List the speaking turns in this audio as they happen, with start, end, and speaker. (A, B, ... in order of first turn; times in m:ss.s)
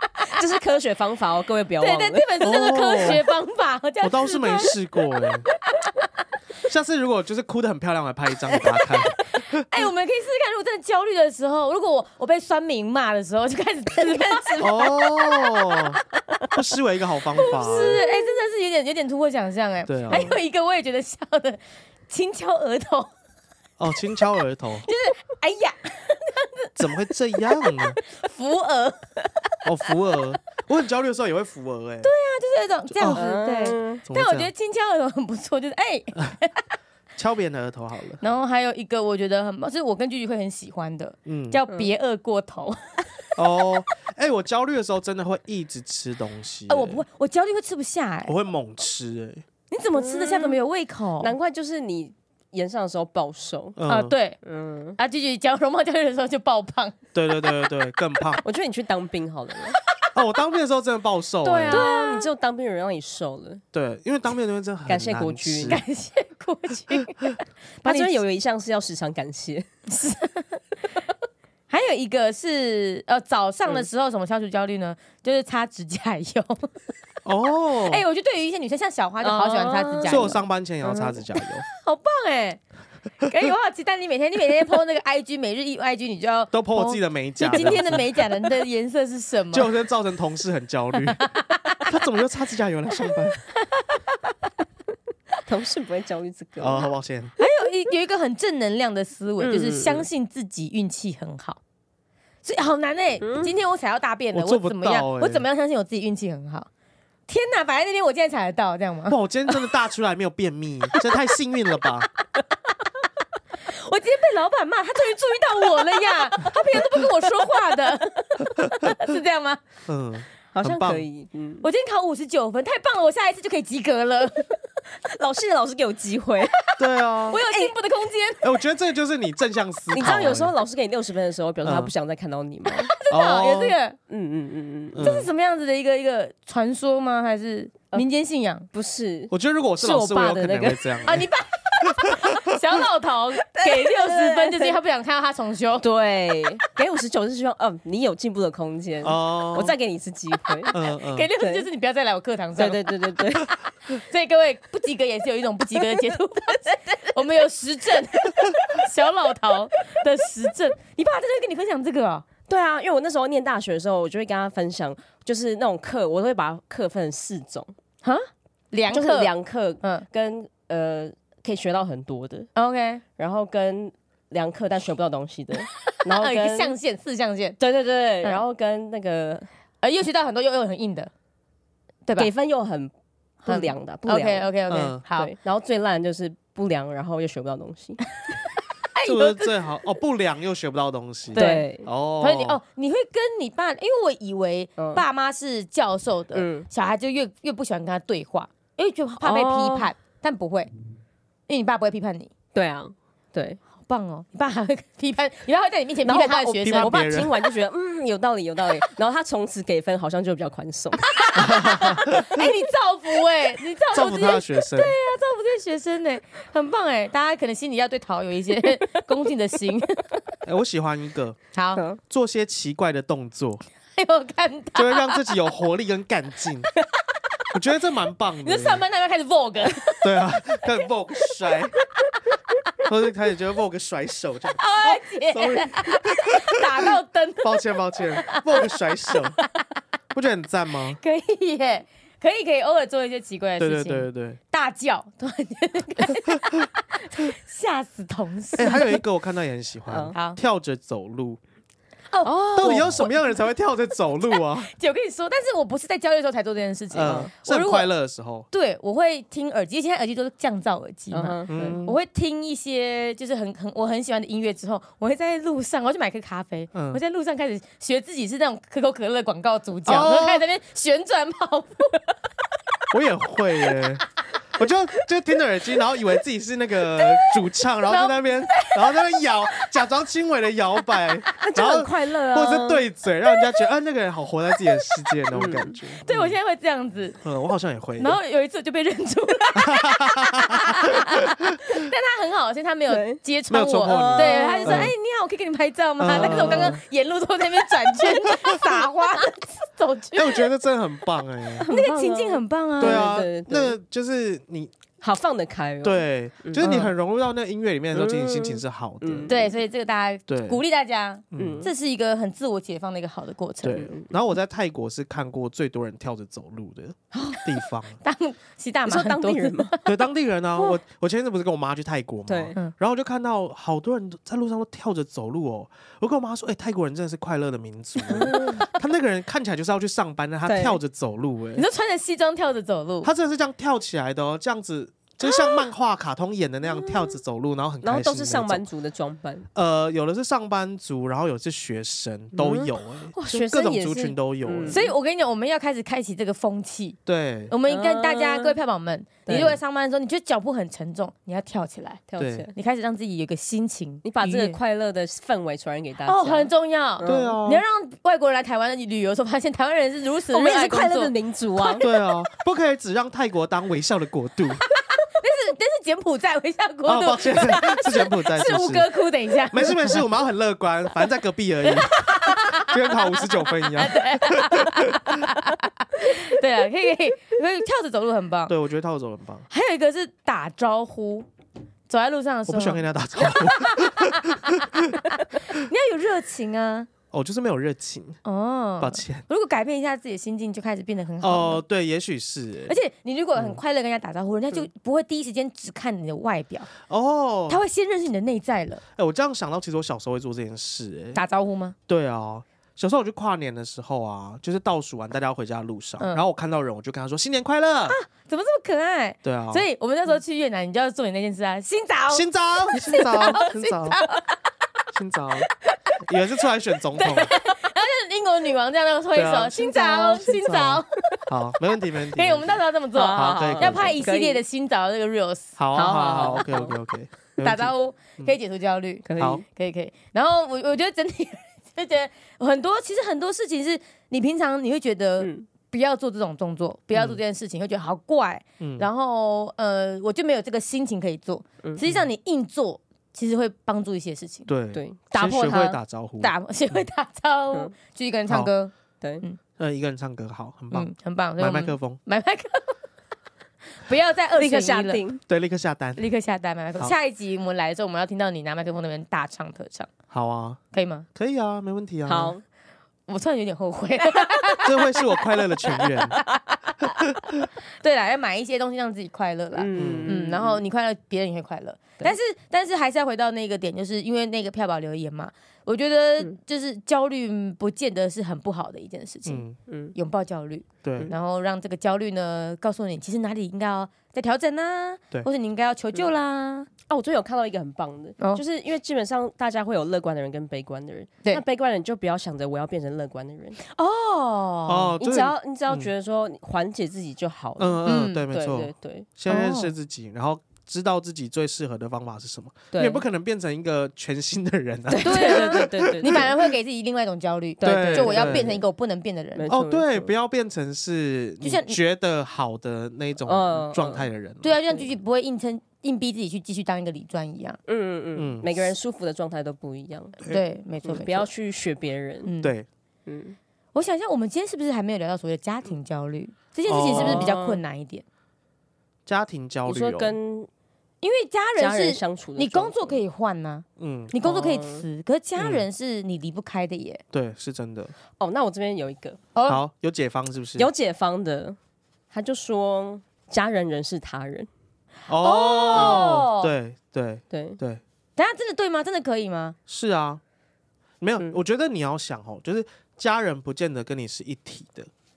0:00.3-0:02.5 A
0:01.8-0:05.5 B
0:02.4-0:03.2 C
0:04.0-0:05.5 C
0:06.7-0:09.7 C
0:08.5-0:15.8 B
0:14.6-0:18.0 C
0:17.3-0:23.1 B
0:19.9-0:20.4 C
0:23.8-0:24.9 C
0:24.8-0:29.6 B
0:26.8-0:28.0 C
0:29.6-0:32.1 C
0:32.0-0:36.6 B
0:32.9-0:33.2 C
0:33.1-0:34.0 A
0:34.0-0:34.5 C
0:37.2-0:38.2 C
0:38.2-0:43.0 B
0:41.2-0:41.6 C
0:43.4-0:47.0 C
0:46.7-0:48.3 B
0:48.2-0:49.4 C
0:49.7-0:51.3 B
0:50.0-0:50.6 A
0:51.2-0:53.8 A
0:53.8-0:54.1 C
0:53.9-0:54.4 B
0:54.4-0:55.0 A
0:55.0-0:57.0 B
0:57.1-0:58.4 C
0:58.4-0:59.8 A
1:00.1-1:01.9 C
1:01.4-1:03.6 A
1:01.7-1:02.3 B
1:03.7-1:05.8 C
1:04.8-1:05.8 A
1:05.7-1:08.2 B
1:07.8-1:09.7 A
1:09.9-1:10.5 B
1:11.7-1:16.7 B
1:17.2-1:18.0 C
1:17.8-1:20.4 B
1:19.2-1:20.4 A
1:20.0-1:21.7 C
1:20.9-1:22.6 B
1:23.2-1:29.7 B
1:26.5-1:28.2 C
1:29.5-1:31.3 C
1:31.2-1:31.8 B
1:31.8-1:33.4 C
1:33.7-1:34.0 B
1:35.4-1:36.9 A
1:36.6-1:37.3 C
1:37.4-1:41.6 B
1:39.4-1:40.1 A
1:42.4-1:46.7 B
1:43.2-1:43.5 A
1:44.3-1:45.4 C
1:47.3-1:49.5 B
1:49.1-1:52.1 C
1:53.6-1:59.6 B
1:59.8-2:01.0 C
2:00.5-2:01.6 A
2:01.6-2:04.6 B
2:05.1-2:06.6 A
2:06.7-2:08.5 B
2:06.8-2:07.4 C
2:08.4-2:10.5 C
2:09.9-2:12.9 A
2:11.6-2:11.9 C
2:12.9-2:14.0 B
2:13.1-2:13.8 C
2:14.1-2:15.1 A
2:14.9-2:15.3 C
2:15.0-2:18.7 B
2:18.7-2:21.0 A
2:19.3-2:21.3 C
2:21.0-2:25.8 B
2:21.8-2:22.4 C
2:23.4-2:24.8 A
2:25.8-2:30.7 A
2:29.0-2:29.8 C
2:30.7-2:31.3 C
2:30.7-2:33.2 B
2:31.4-2:31.7 A
2:32.6-2:33.5 A
2:33.8-2:42.2 B
2:42.5-2:47.7 A
2:48.0-2:50.0 B
2:48.9-2:52.5 A
2:52.6-2:53.0 B
2:53.2-2:56.8 A
2:56.0-2:57.6 B
2:57.6-2:59.5 A
2:59.8-3:01.1 B
3:02.2-3:02.9 A
3:03.4-3:04.5 A
3:03.4-3:05.3 B
3:04.7-3:05.0 C
3:05.1-3:08.0 A
3:08.9-3:09.6 B
3:09.0-3:12.6 C
3:11.3-3:11.9 A
3:11.3-3:11.7 B
3:12.2-3:20.7 B
3:14.8-3:15.0 A
3:16.3-3:16.7 A
3:19.2-3:19.9 A
3:21.5-3:22.3 B
3:22.5-3:23.6 A
3:23.8-3:27.5 B
3:26.0-3:31.4 A
3:26.6-3:27.3 C
3:31.1-3:40.1 B
3:31.4-3:32.5 C
3:33.9-3:34.9 C
3:40.4-3:41.4 C
3:41.5-3:41.8 B
3:42.0-3:43.6 C
3:44.0-3:45.3 B
3:44.8-3:46.7 C
3:47.5-3:48.8 C
3:48.4-3:50.6 B
3:50.0-3:51.7 C
3:52.8-3:56.6 C
3:54.6-3:57.6 B
3:57.4-3:59.4 C
3:58.2-3:59.6 B
4:00.1-4:01.0 C
4:01.0-4:09.0 B
4:03.6-4:04.4 C
4:06.3-4:06.6 C
4:08.5-4:11.4 C
4:09.9-4:10.1 A
4:10.1-4:10.4 B
4:12.1-4:13.4 B
4:12.2-4:13.0 A
4:12.6-4:14.7 C
4:14.3-4:17.9 B
4:16.9-4:18.5 C
4:17.0-4:17.3 A
4:18.5-4:32.2 B
4:21.1-4:21.8 A
4:21.5-4:22.0 C
4:26.7-4:27.0 C
4:29.8-4:30.4 C
4:32.9-4:34.0 C
4:34.5-4:46.4 C
4:36.9-4:39.7 B
4:41.4-4:42.8 A
4:45.3-4:45.8 A
4:46.0-4:47.2 B
4:47.2-4:48.2 C
4:48.0-5:00.5 B
4:49.5-4:51.8 C
4:52.9-4:53.2 A
4:53.5-4:54.9 C
4:53.8-4:54.9 A
4:56.0-4:56.8 C
4:56.1-4:56.8 A
4:58.3-4:58.6 C
5:00.1-5:01.6 C
5:01.6-5:03.8 A
5:01.7-5:03.1 B
5:02.8-5:04.7 C
5:05.0-5:06.9 A
5:05.8-5:09.3 C
5:06.6-5:06.9 B
5:07.9-5:09.5 A
5:09.3-5:13.9 B
5:10.3-5:10.6 C
5:11.3-5:11.7 C
5:11.3-5:11.7 A
5:13.6-5:18.0 C
5:13.7-5:14.1 A
5:17.2-5:17.4 A
5:18.0-5:19.9 B
5:18.8-5:19.8 A
5:19.8-5:31.6 C
5:22.3-5:22.6 A
5:28.0-5:28.6 A
5:30.4-5:30.8 A
5:31.6-5:33.1 B
5:33.0-5:38.6 C
5:36.7-5:37.2 A
5:37.8-5:39.5 A
5:39.5-5:44.8 C
5:42.4-5:44.9 A
5:44.7-5:47.0 B
5:47.0-5:47.5 C
5:47.5-5:52.0 B
5:47.7-5:48.6 A
5:49.2-5:49.6 A
5:49.3-5:49.6 C
5:52.1-5:52.5 A
5:52.2-5:52.5 C
5:52.5-5:54.6 B
5:54.0-5:57.4 A
5:56.0-6:01.8 B
5:57.0-5:57.6 C
6:00.3-6:01.9 A
6:01.8-6:04.6 C
6:05.0-6:10.0 B
6:06.8-6:08.9 C
6:09.5-6:15.3 C
6:11.7-6:18.5 B
6:18.5-6:19.5 C
6:19.5-6:21.3 B
6:21.9-6:26.9 B
6:22.5-6:25.5 C
6:27.1-6:28.2 C
6:28.2-6:31.6 B
6:28.8-6:29.2 C
6:31.2-6:32.8 C
6:32.7-6:36.7 B
6:36.9-6:37.6 C
6:37.5-6:38.8 B
6:38.9-6:41.2 C
6:41.1-6:41.7 B
6:41.9-6:48.0 C
6:46.0-6:46.2 B
6:47.9-6:54.4 B
6:49.2-6:49.6 C
6:52.1-6:54.0 C
6:54.9-6:55.5 C
6:56.0-6:57.3 C
6:57.0-7:00.9 B
6:59.1-7:02.6 C
7:02.1-7:05.6 B
7:02.9-7:04.4 A
7:03.1-7:04.0 C
7:05.6-7:08.3 C
7:05.7-7:06.7 A
7:07.4-7:24.5 B
7:09.0-7:09.4 A
7:09.2-7:09.4 C
7:15.2-7:15.4 A
7:16.9-7:17.2 C
7:18.6-7:18.9 C
7:24.5-7:26.8 C
7:24.7-7:25.8 A
7:26.2-7:29.4 B
7:29.6-7:32.0 C
7:30.7-7:32.7 B
7:33.8-7:35.0 B
7:34.4-7:35.2 A
7:35.3-7:36.0 C
7:36.0-7:39.9 B
7:40.1-7:40.6 C
7:40.7-7:41.1 B
7:41.1-7:42.3 C
7:42.0-7:42.4 A
7:43.1-8:06.7 B
7:44.6-7:46.2 C
7:49.5-7:50.6 A
7:49.7-7:50.1 C
7:59.2-7:59.6 C
7:59.7-7:59.9 A
8:00.8-8:01.1 C
8:06.9-8:13.6 A
8:13.7-8:14.9 B
8:14.7-8:15.9 C
8:15.0-8:19.1 A
8:17.6-8:26.4 C
8:17.8-8:18.2 B
8:19.3-8:19.7 B
8:22.7-8:23.0 A
8:24.9-8:29.5 B
8:25.0-8:26.2 A
8:27.6-8:28.6 A
8:27.6-8:28.6 C
8:29.4-8:30.1 A
8:29.5-8:34.6 C
8:31.4-8:31.8 B
8:33.2-8:34.1 A
8:34.4-8:37.6 B
8:37.7-8:40.2 A
8:38.1-8:38.5 C
8:40.3-8:41.3 B
8:40.8-8:42.3 A
8:42.2-8:42.5 B
8:42.4-8:42.7 C
8:43.0-8:43.4 A
8:43.7-8:48.0 B
8:46.7-8:47.3 C
8:46.7-8:47.6 A
8:49.0-8:50.2 C
8:49.6-8:50.5 A
8:51.0-8:57.0 B
8:51.6-8:53.0 A
8:53.8-8:54.1 C
8:54.2-8:54.8 A
8:55.4-8:55.6 C
8:57.1-8:57.9 C
8:58.2-8:59.2 A
8:59.3-8:59.6 B
8:59.5-9:00.7 C
9:00.6-9:01.6 A
9:02.1-9:04.5 A
9:05.1-9:07.8 C
9:05.2-9:06.5 B
9:05.7-9:06.1 A
9:07.3-9:07.6 A
9:08.2-9:09.6 B
9:09.7-9:10.2 C
9:11.0-9:14.9 C